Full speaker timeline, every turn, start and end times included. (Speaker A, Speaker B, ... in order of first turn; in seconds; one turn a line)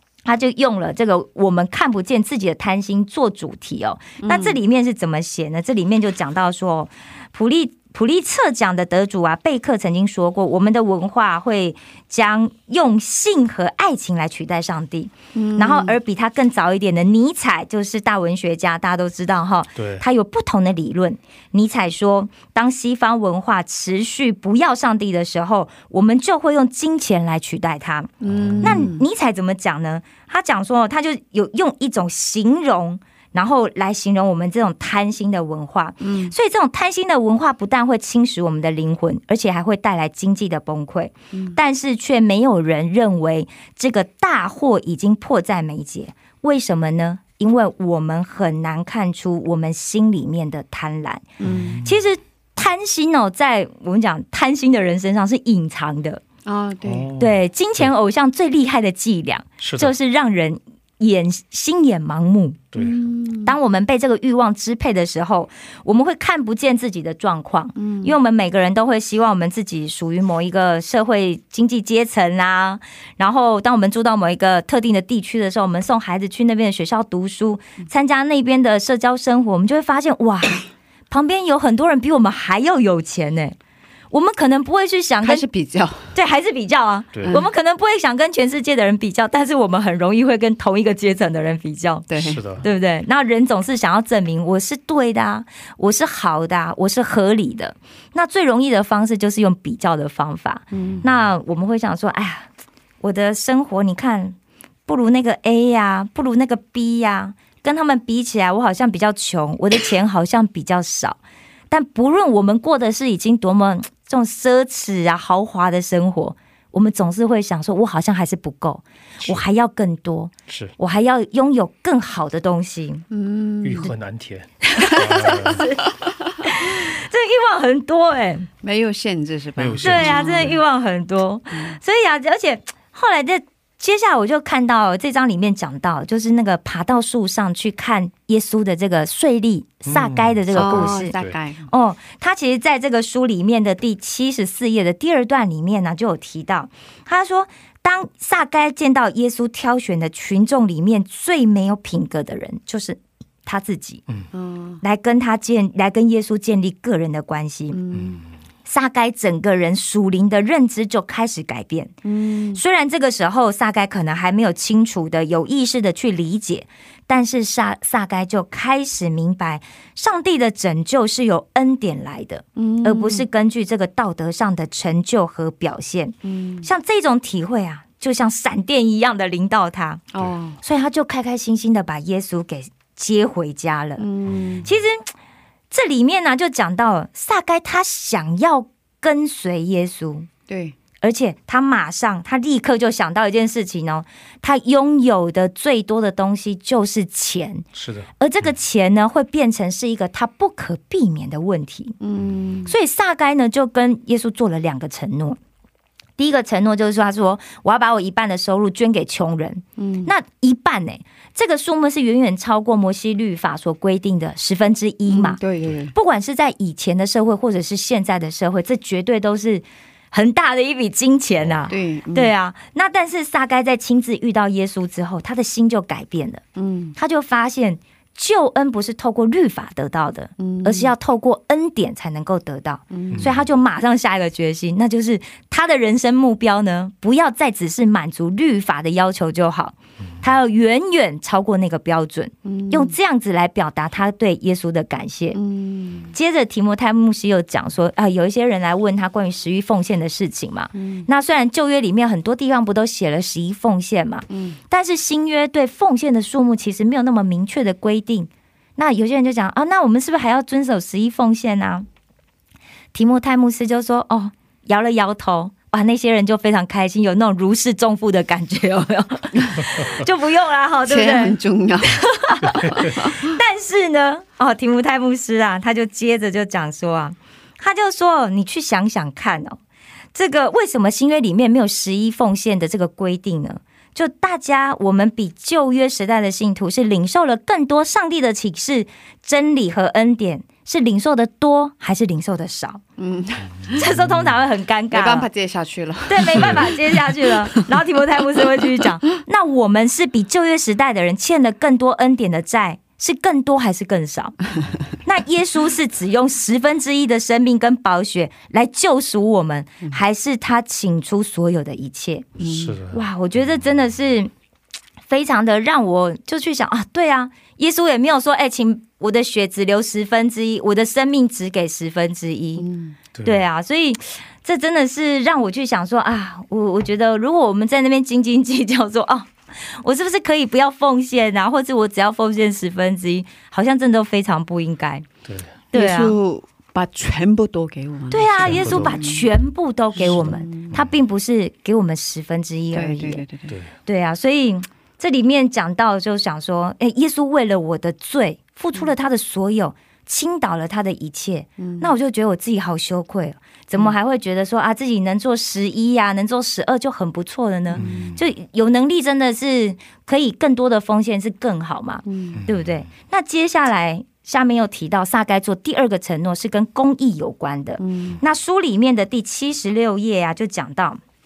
Speaker A: 0.2-51.2
Speaker B: 4.2-4.6
Speaker B: 15.3-16.0
Speaker C: 19.8-20.0
Speaker B: 28.2-29.1
Speaker C: 28.2-28.9
Speaker B: 36.0-36.3
Speaker B: 41.3-41.6
Speaker B: 51.4-51.8
Speaker C: 51.4-51.9
Speaker A: 51.8-56.2
Speaker B: 56.5-57.1
Speaker C: 56.9-57.9
Speaker A: 57.2-62.6
Speaker C: 59.6-59.9
Speaker C: 62.7-63.0
Speaker B: 62.8-63.6
Speaker A: 63.4-83.5
Speaker B: 67.8-68.2
Speaker A: 84.1-85.4
Speaker B: 85.2-86.1
Speaker A: 86.1-92.1
Speaker C: 87.1-87.4
Speaker B: 92.1-92.4
Speaker C: 92.2-92.7
Speaker A: 92.6-102.5
Speaker B: 100.7-101.0
Speaker A: 103.0-104.3
Speaker A: 104.9-111.2
Speaker A: 111.7-123.1
Speaker C: 119.2-119.4
Speaker C: 120.5-120.7
Speaker B: 123.1-123.9
Speaker C: 123.6-125.6
Speaker A: 124.6-125.8
Speaker B: 125.0-126.1
Speaker A: 126.4-128.5
Speaker B: 128.6-130.6
Speaker C: 129.6-130.5
Speaker A: 129.8-141.1
Speaker B: 131.5-131.8
Speaker C: 139.8-141.4
Speaker B: 140.5-141.7
Speaker A: 141.7-154.0
Speaker B: 154.3-154.8
Speaker A: 154.8-157.8
Speaker B: 157.7-158.2
Speaker A: 158.7-161.9
Speaker B: 162.0-162.6
Speaker A: 162.6-180.0
Speaker B: 172.6-173.2
Speaker B: 176.2-176.7
Speaker B: 180.1-180.6
Speaker A: 180.6-184.0
Speaker B: 184.0-184.6
Speaker A: 184.6-185.1
Speaker A: 185.7-190.3
Speaker B: 190.5-190.8
Speaker A: 191.0-197.6
Speaker C: 197.7-198.1
Speaker A: 198.2-201.9
Speaker B: 202.0-202.8
Speaker A: 202.7-205.4
Speaker A: 206.2-215.4
Speaker B: 209.8-210.1
Speaker B: 215.1-215.9
Speaker A: 215.9-226.4
Speaker C: 221.4-221.7
Speaker B: 221.7-222.3
Speaker B: 226.6-226.9
Speaker A: 226.9-245.4
Speaker B: 230.4-230.9
Speaker B: 232.9-233.3
Speaker B: 242.4-242.9
Speaker B: 245.3-246.1
Speaker A: 246.1-261.9
Speaker B: 250.7-251.1
Speaker B: 254.3-254.6
Speaker A: 262.9-271.4
Speaker B: 270.9-273.3
Speaker A: 271.9-279.6
Speaker C: 272.4-272.8
Speaker A: 280.1-292.8
Speaker B: 293.0-293.8
Speaker A: 293.7-295.3
Speaker C: 293.9-294.3
Speaker B: 294.9-297.8
Speaker A: 296.1-304.4
Speaker C: 296.3-296.7
Speaker A: 305.0-312.3
Speaker B: 312.4-312.8
Speaker C: 312.4-313.0
Speaker A: 312.9-314.3
Speaker A: 315.1-322.6
Speaker B: 322.6-322.9
Speaker C: 323.1-323.4
Speaker A: 323.2-329.3
Speaker A: 329.8-335.1
Speaker C: 335.2-335.5
Speaker B: 335.7-339.3
Speaker A: 335.7-336.1
Speaker A: 338.1-343.2
Speaker C: 338.4-339.0
Speaker B: 340.0-340.8
Speaker B: 342.7-343.5
Speaker A: 343.9-371.0
Speaker B: 351.6-351.9
Speaker B: 357.7-358.1
Speaker C: 357.8-358.2
Speaker B: 362.0-362.4
Speaker C: 362.4-362.7
Speaker B: 367.8-368.2